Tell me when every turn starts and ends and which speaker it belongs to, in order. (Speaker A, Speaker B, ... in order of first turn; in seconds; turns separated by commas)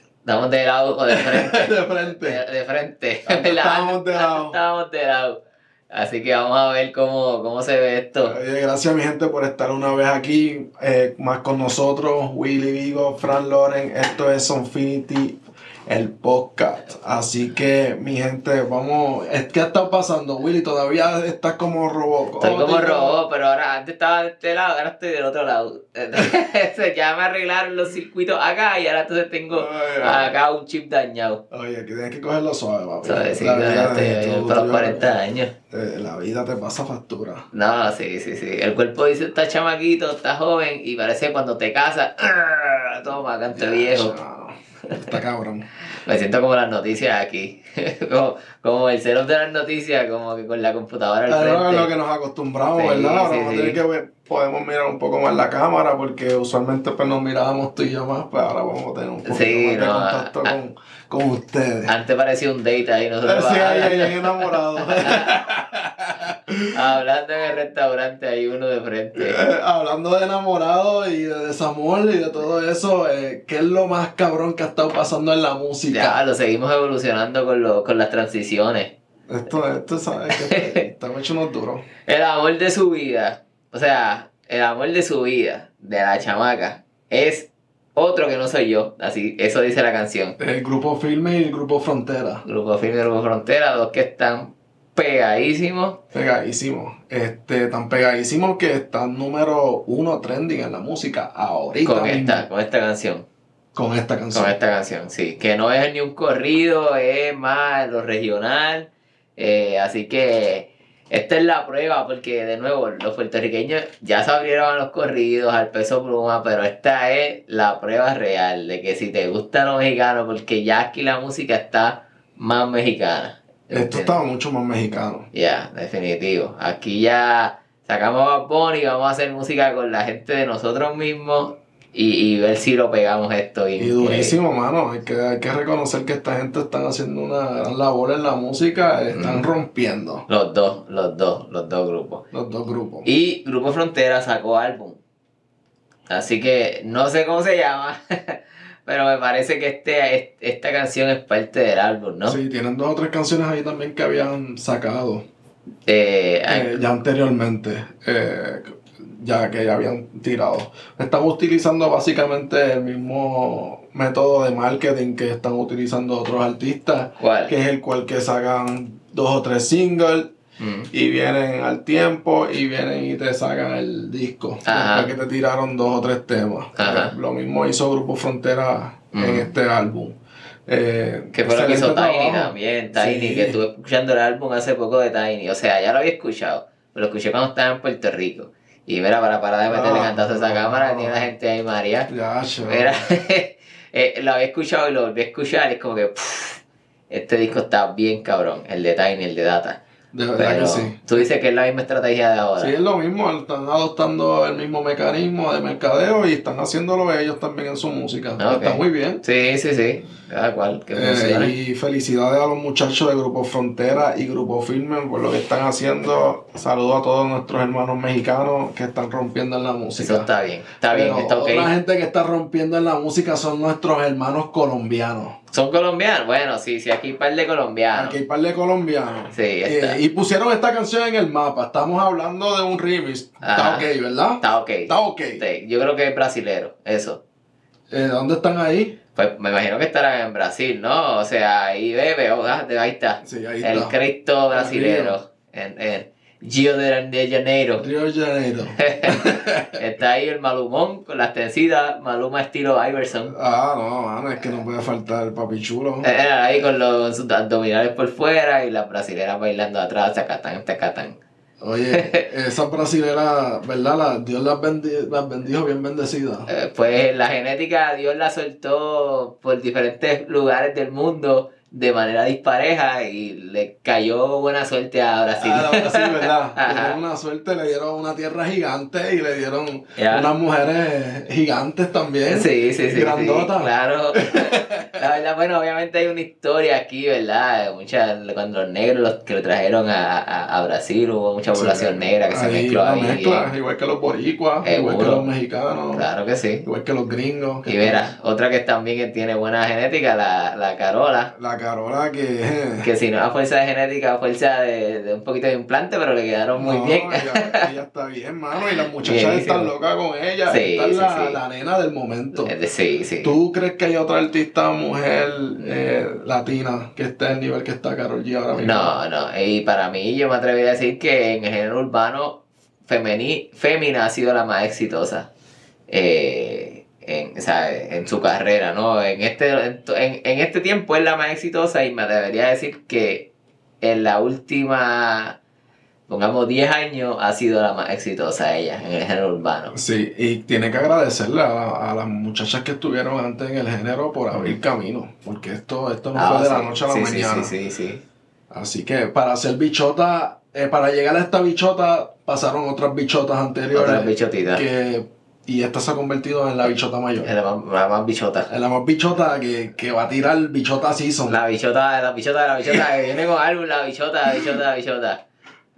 Speaker A: 0.2-5.4, Speaker B: 1.1-2.4, Speaker B: 3.2-4.6, Speaker A: 5.9-8.4, Speaker B: 8.2-23.2, Speaker A: 22.4-31.4, Speaker B: 29.5-30.3, Speaker B: 31.5-35.1, Speaker A: 33.0-35.5, Speaker B: 35.7-37.5, Speaker A: 37.5-44.1, Speaker B: 43.5-45.7, Speaker A: 45.9-51.9, Speaker B: 51.3-61.9, Speaker A: 52.7-53.8, Speaker A: 59.2-60.5, Speaker A: 61.9-65.3, Speaker B: 63.2-66.7, Speaker A: 66.7-69.4, Speaker B: 69.2-76.2, Speaker A: 75.9-78.9, Speaker B: 79.3-81.8, Speaker A: 80.3-80.8, Speaker A: 82.0-90.3, Speaker B: 90.4-92.4, Speaker A: 92.4-96.0, Speaker B: 96.1-102.4, Speaker A: 101.8-103.2, Speaker B: 103.7-104.5, Speaker A: 104.3-124.2, Speaker B: 123.7-125.3, Speaker A: 125.3-134.3, Speaker B: 133.8-140.2, Speaker A: 139.1-139.5, Speaker A: 140.3-142.2, Speaker B: 142.3-143.1, Speaker A: 143.0-145.0, Speaker A: 146.1-152.4, Speaker B: 152.3-155.2, Speaker A: 155.9-156.8, Speaker B: 156.5-170.3, Speaker A: 167.2-167.5, Speaker A: 170.6-170.9, Speaker B: 170.9-183.6, Speaker A: 174.6-175.1, Speaker A: 176.8-177.1, Speaker A: 179.1-179.5, Speaker A: 181.3-192.1, Speaker B: 189.7-191.3, Speaker B: 192.1-193.0, Speaker A: 192.6-199.8, Speaker B: 200.1-201.1, Speaker A: 200.4-202.7, Speaker B: 202.6-209.2, Speaker A: 208.4-211.5, Speaker B: 210.9-220.3, Speaker A: 220.0-221.7, Speaker B: 220.9-225.4, Speaker A: 225.5-228.2, Speaker B: 227.9-235.4, Speaker A: 229.3-230.0, Speaker A: 233.4-233.8, Speaker A: 234.4-237.2, Speaker B: 237.9-239.0, Speaker A: 239.2-247.8, Speaker B: 243.2-243.9, Speaker B: 244.5-245.2, Speaker B: 247.8-249.8, Speaker A: 248.8-253.3, Speaker B: 253.3-256.1, Speaker A: 256.0-261.2, Speaker B: 261.6-266.5, Speaker A: 266.5-277.0, Speaker B: 275.4-285.0, Speaker A: 280.0-280.3, Speaker A: 282.3-293.5, Speaker B: 291.5-296.1, Speaker A: 294.6-295.3, Speaker A: 295.9-296.6, Speaker B: 296.6-298.0, Speaker A: 297.6-301.3, Speaker B: 301.3-302.9, Speaker A: 302.8-307.7, Speaker B: 306.6-312.5, Speaker A: 308.5-309.7, Speaker A: 310.5-311.4, Speaker A: 312.4-313.3, Speaker B: 313.2-318.9, Speaker A: 318.6-325.3, Speaker A: 325.9-333.3, Speaker A: 333.8-335.4, Speaker A: 336.1-339.7, Speaker B: 339.7-347.5, Speaker A: 346.1-348.0, Speaker B: 348.5-357.3, Speaker A: 353.7-354.6, Speaker A: 357.2-358.5, Speaker B: 358.5-361.4, Speaker A: 361.3-365.2